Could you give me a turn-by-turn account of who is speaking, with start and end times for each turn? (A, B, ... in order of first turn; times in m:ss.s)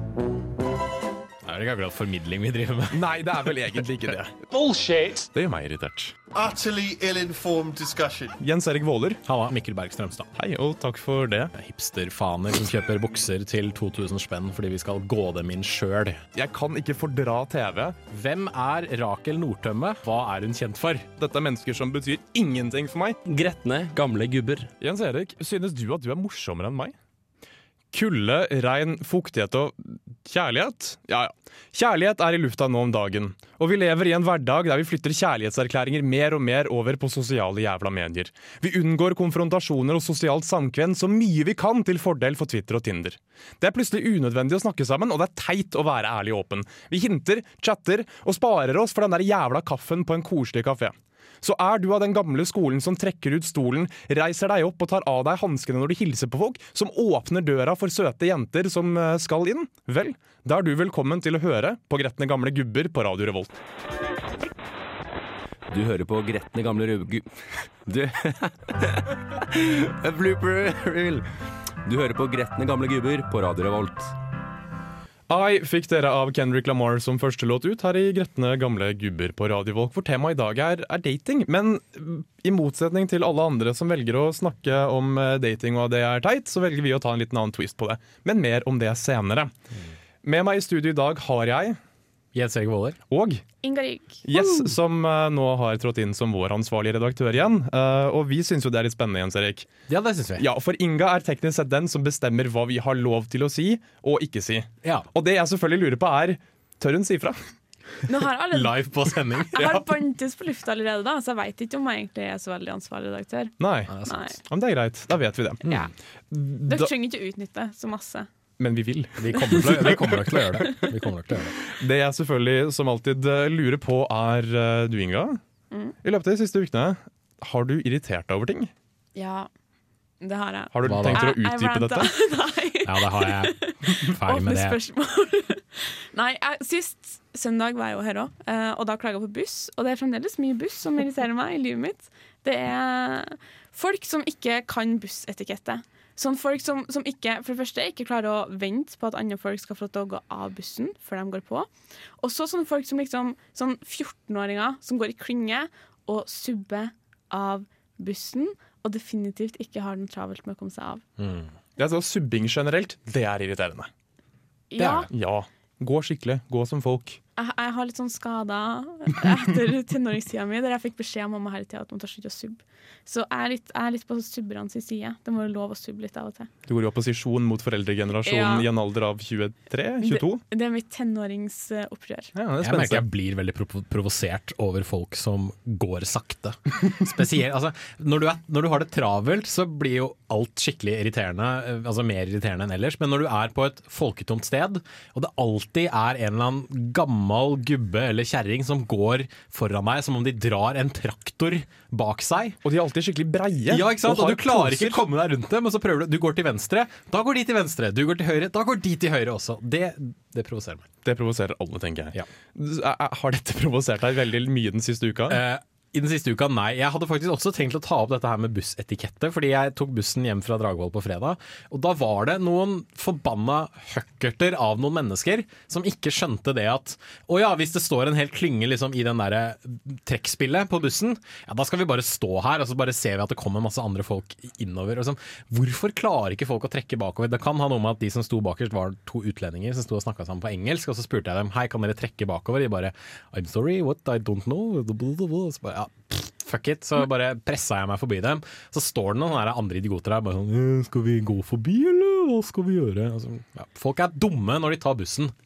0:01.4-0:03.2 A
0:02.9-0:04.4 B
0:04.5-0:05.3 C
0:05.3-0:06.2 B
0:06.3-0:08.4 C
0:08.4-0:09.2 B
0:09.3-0:10.3 A
0:10.4-0:11.5 B
0:11.5-0:16.2 A
0:16.4-0:18.0 B
0:18.1-0:21.1 A
0:21.2-0:23.2 B
0:23.3-0:24.7 D
0:24.8-0:27.0 B
0:27.9-1:03.6 B
1:05.7-1:11.3 D
1:11.8-1:14.2 D
1:15.3-1:29.5 B
1:30.2-1:31.8 B
1:32.3-1:33.0 A
1:33.1-1:33.4 B
1:33.6-1:34.2 E
1:34.3-1:39.7 B
1:34.4-1:34.6 A
1:39.9-1:40.5 A
1:40.4-1:47.4 B
1:48.1-1:48.8 E
1:48.5-1:49.6 A
1:49.5-1:53.5 E
1:49.6-1:49.8 B
1:53.6-1:55.7 B
1:53.9-1:54.2 A
1:54.1-1:54.4 E
1:55.7-1:55.9 E
1:56.3-1:56.9 B
1:56.7-1:58.3 E
1:58.6-2:00.8 B
1:59.2-2:01.6 A
2:01.7-2:05.4 B
2:06.0-2:08.7 B
2:09.2-2:09.5 E
2:10.2-2:31.7 E
2:10.7-2:12.1 B
2:10.8-2:11.3 A
2:12.8-2:14.8 A
2:32.2-2:41.0 E
2:41.2-2:41.5 A
2:41.8-2:43.9 B
2:44.7-2:45.1 E
2:44.8-2:45.1 A
2:45.1-2:47.2 B
2:47.4-2:56.5 E
2:56.7-3:00.4 B
2:58.2-2:58.7 E
3:00.0-3:02.3 E
3:02.4-3:03.0 B
3:02.6-3:22.6 A
3:22.6-3:25.0 B
3:23.7-3:30.9 A
3:31.0-3:35.4 B
3:35.3-4:15.3 A